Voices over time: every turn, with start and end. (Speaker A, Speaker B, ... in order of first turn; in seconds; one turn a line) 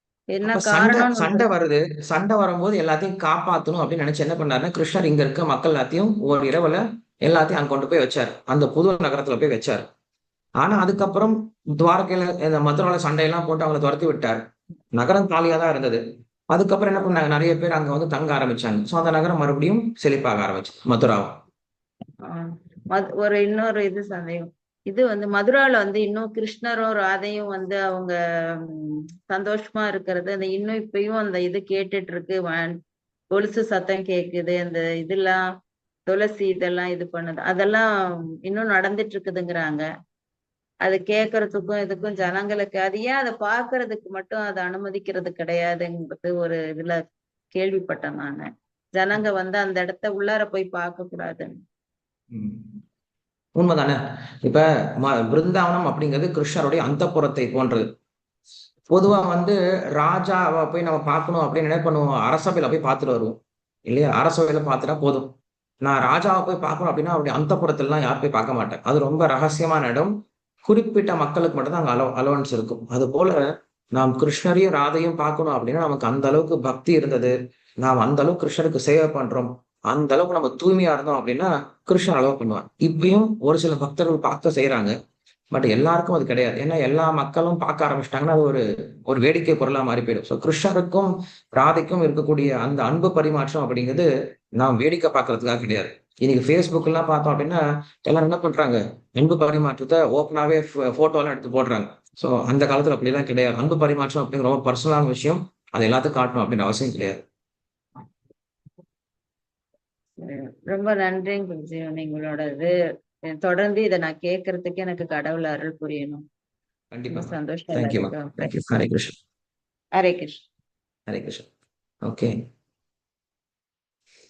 Speaker A: 0.3-1.4
Speaker B: 0.4-9.8
Speaker B: 10.6-14.4
Speaker B: 14.9-21.3
Speaker A: 22.3-32.8
Speaker A: 33.3-35.4
Speaker A: 36.1-37.9
Speaker A: 38.5-39.8
Speaker A: 40.8-47.0
Speaker A: 47.5-48.4
Speaker A: 48.9-51.5
Speaker B: 52.3-52.6
Speaker B: 53.5-57.8
Speaker B: 58.9-63.4
Speaker B: 63.9-65.2
Speaker B: 65.8-70.1
Speaker B: 70.6-73.4
Speaker B: 73.9-84.9
Speaker B: 85.5-94.1
Speaker B: 94.6-107.2
Speaker A: 110.2-112.7
Speaker A: 113.3-116.2
Speaker B: 116.9-119.2
Speaker A: 117.1-118.5
Speaker A: 120.0-120.4
Speaker B: 121.1-121.5
Speaker B: 122.0-122.3